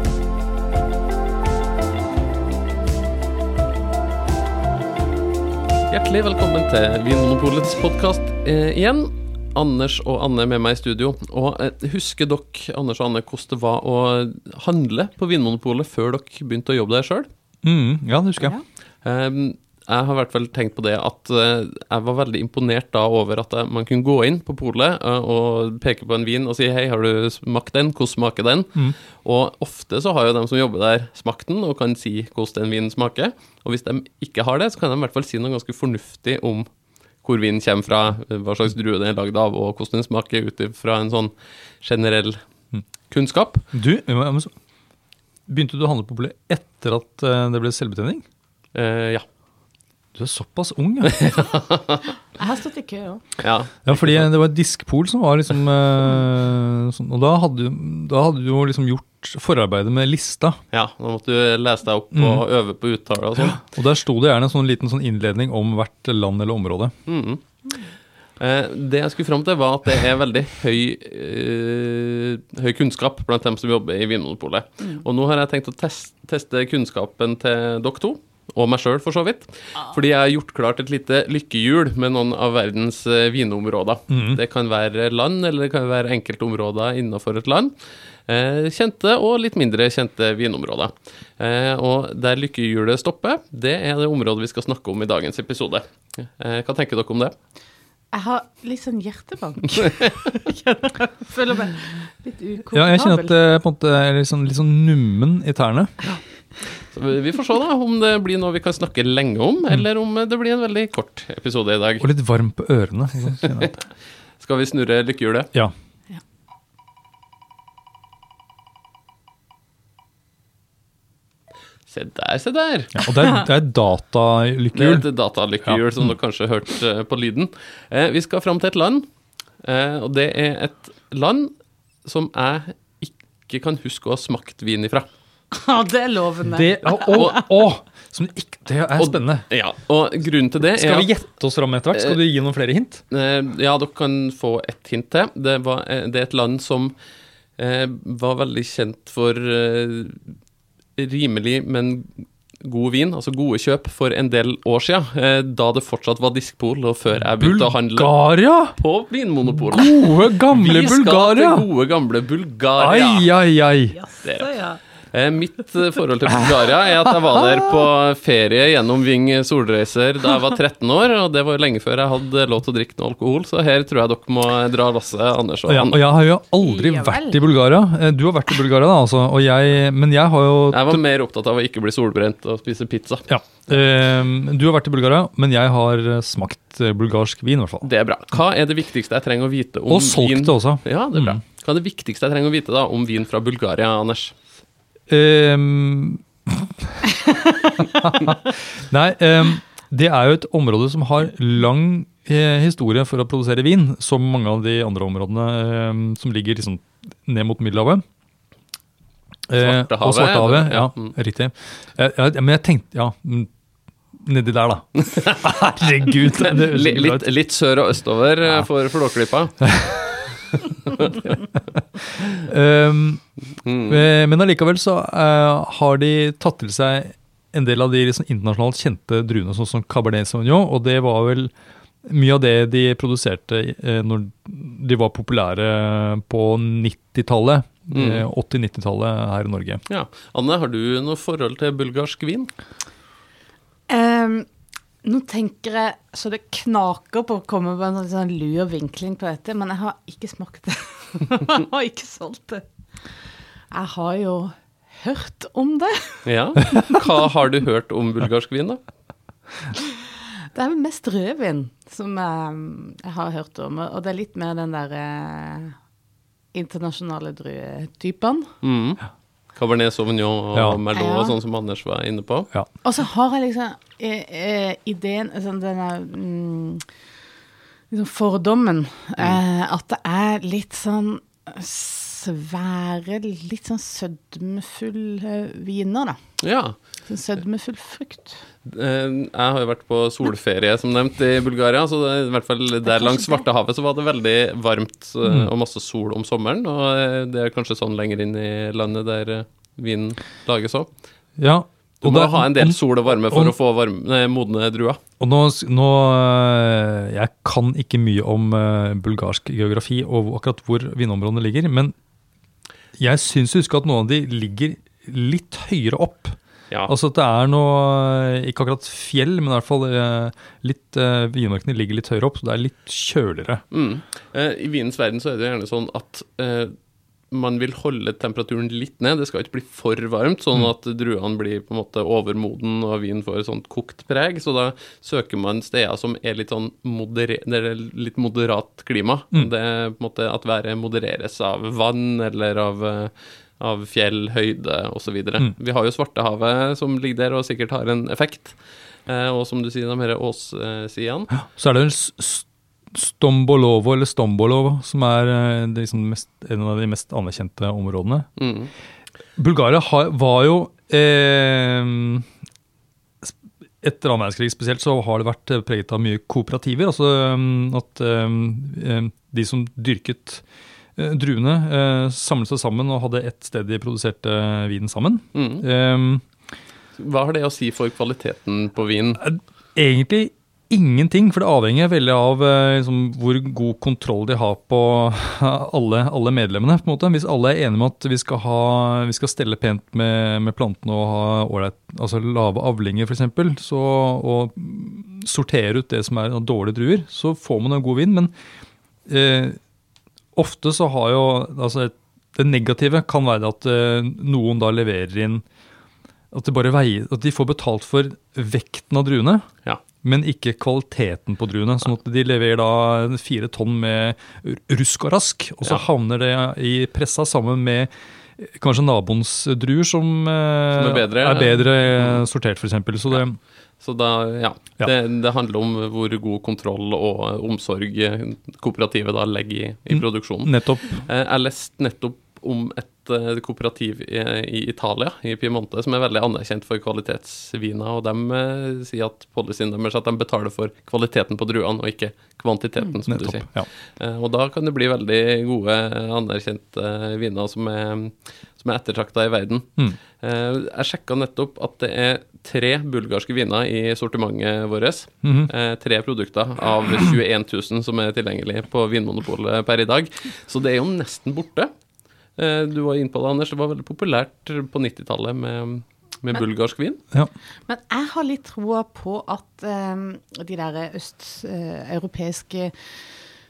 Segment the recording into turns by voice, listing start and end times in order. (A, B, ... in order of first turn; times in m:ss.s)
0:05.9-0:17.3 A
0:17.6-0:18.6 B
0:19.0-0:36.7 A
0:37.2-0:42.4 A
0:43.1-0:43.6 A
0:43.7-0:44.5 B
0:45.5-0:48.2 B
0:48.8-0:49.2 A
0:50.2-0:51.2 B
0:51.1-0:52.0 A
0:52.4-0:53.4 C
0:53.4-0:54.3 A
0:53.9-1:00.6 B
1:00.7-1:03.6 A
1:02.1-1:02.4 B
1:03.4-1:07.0 B
1:07.1-1:07.4 A
1:08.4-1:27.8 A
1:24.1-1:24.4 B
1:28.3-1:37.3 A
1:38.1-1:43.3 C
1:42.7-1:46.0 B
1:46.9-1:52.0 A
1:52.0-1:53.8 B
1:54.4-1:55.5 A
2:01.9-2:03.0 A
2:03.0-2:05.0 B
2:04.7-2:09.1 A
2:09.6-2:11.5 A
2:12.0-2:15.1 A
2:15.5-2:17.4 C
2:16.5-2:19.5 B
2:17.1-2:17.4 A
2:19.0-2:21.1 A
2:20.7-2:23.0 B
2:23.1-2:26.9 A
2:27.6-2:30.2 A
2:31.0-2:43.3 A
2:37.4-2:38.8 B
2:39.6-2:41.6 B
2:42.8-2:44.0 B
2:44.0-2:44.8 C
2:44.2-2:44.6 A
2:45.1-2:56.0 A
2:55.7-3:01.0 B
2:56.6-2:57.4 C
3:00.7-3:03.3 A
3:03.3-3:07.9 B
3:07.8-3:14.3 A
3:09.9-3:11.4 B
3:15.1-3:17.1 B
3:17.8-3:28.0 B
3:29.5-3:33.5 B
3:29.6-3:31.2 A
3:34.2-3:37.2 B
3:36.2-3:39.6 A
3:39.6-3:40.0 B
3:40.5-3:41.3 A
3:42.4-3:43.2 B
3:43.6-3:44.1 A
3:43.9-3:51.5 B
3:52.0-3:59.8 B
3:57.9-3:58.3 A
3:59.9-4:02.5 A
4:03.9-4:04.5 C
4:05.0-4:17.1 C
4:16.2-4:18.8 A
4:19.8-4:25.8 C
4:26.5-4:28.5 C
4:28.6-4:29.0 A
4:29.5-4:32.5 A
4:30.5-4:30.8 B
4:30.9-4:31.4 C
4:32.8-4:36.9 C
4:37.9-4:48.4 C
4:46.4-4:46.8 A
4:48.6-5:00.9 A
4:52.9-4:53.5 C
5:01.4-5:02.8 B
5:02.0-5:05.0 A
5:05.2-5:11.9 B
5:13.0-5:23.6 B
5:23.7-5:26.7 A
5:27.3-5:51.3 A
5:51.4-5:58.3 B
5:58.4-5:58.7 A
5:59.4-6:02.2 B
6:03.2-6:10.4 B
6:11.0-6:16.3 B
6:15.3-6:15.6 A
6:17.0-6:19.2 A
6:19.2-6:38.3 B
6:39.1-6:39.6 B
6:40.4-6:45.4 B
6:46.3-6:49.5 B
6:50.0-7:03.4 B
7:00.7-7:02.2 A
7:03.8-7:29.7 A
7:09.9-7:11.0 B
7:23.1-7:23.7 B
7:30.2-7:41.7 A
7:35.2-7:35.5 B
7:42.4-7:47.0 A
7:47.7-7:52.8 C